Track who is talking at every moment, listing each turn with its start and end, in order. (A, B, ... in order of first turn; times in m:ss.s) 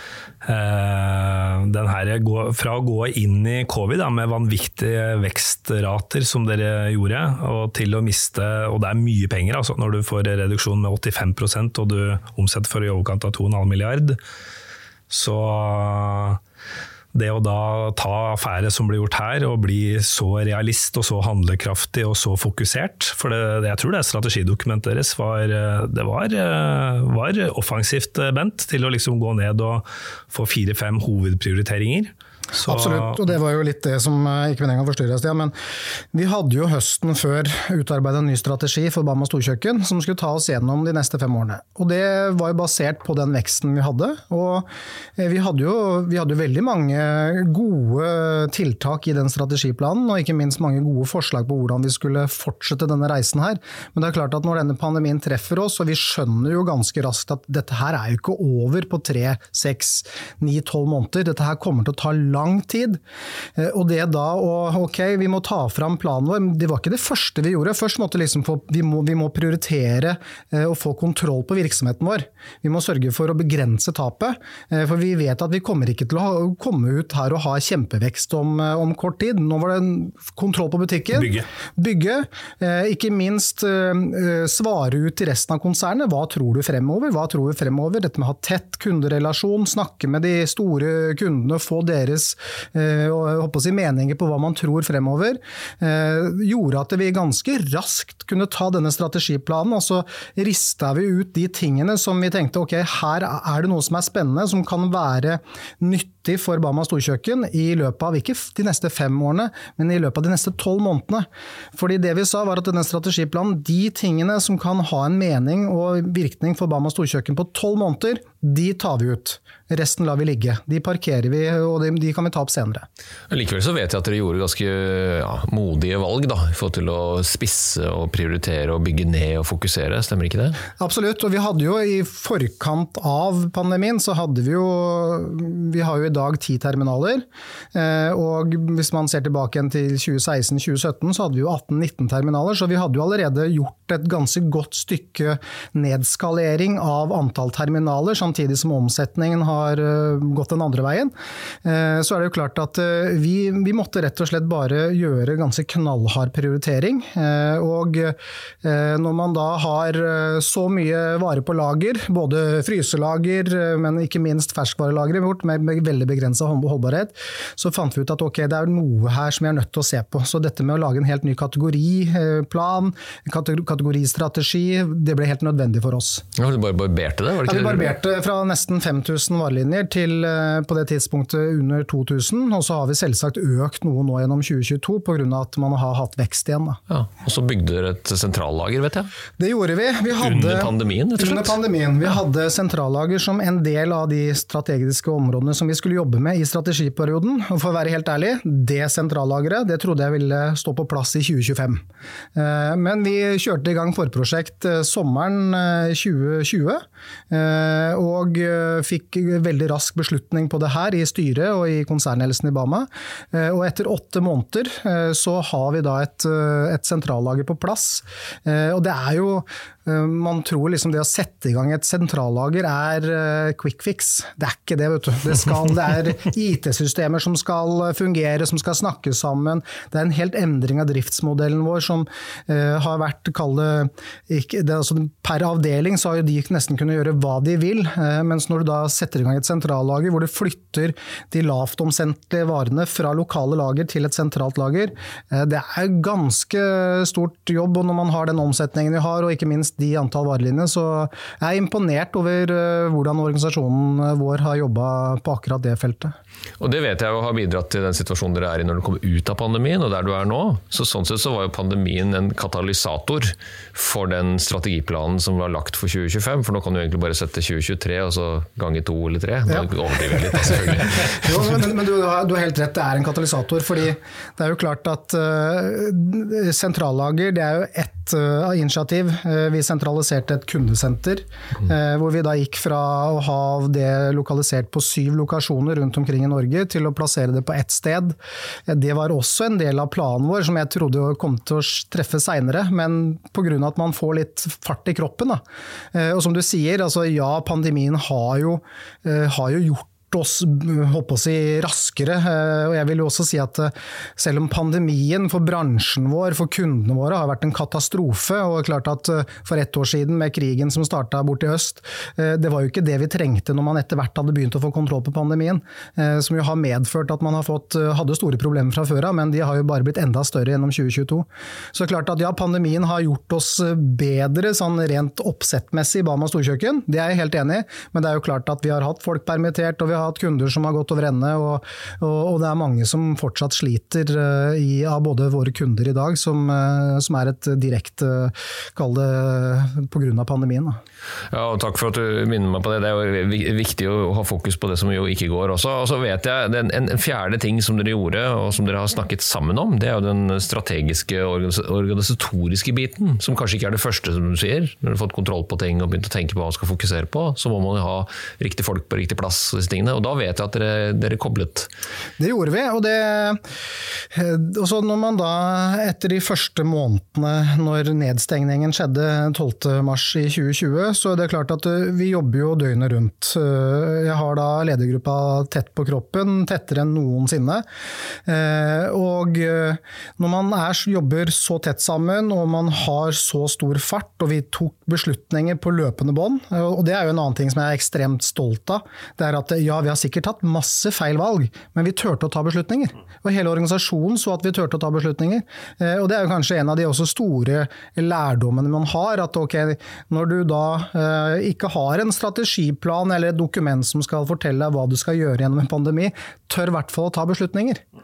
0:00.4-0:14.2 A
0:15.1-0:16.4 A
0:17.1-0:33.3 A
0:32.5-0:35.5 B
0:36.1-1:03.0 B
1:03.6-2:02.8 B
1:21.1-1:21.5 A
2:03.3-2:10.6 C
2:10.8-2:31.1 B
2:31.6-2:56.2 B
2:56.3-2:57.9 C
2:57.4-3:06.8 B
3:06.9-3:09.1 C
3:09.4-3:21.8 B
3:10.2-3:11.6 C
3:22.3-4:16.1 B
4:16.6-4:31.5 C
4:30.4-4:48.2 B
4:48.7-4:55.4 B
4:55.9-5:40.8 B
5:41.3-6:01.7 C
6:02.2-6:03.4 B
6:04.1-6:17.6 B
6:18.2-6:47.8 B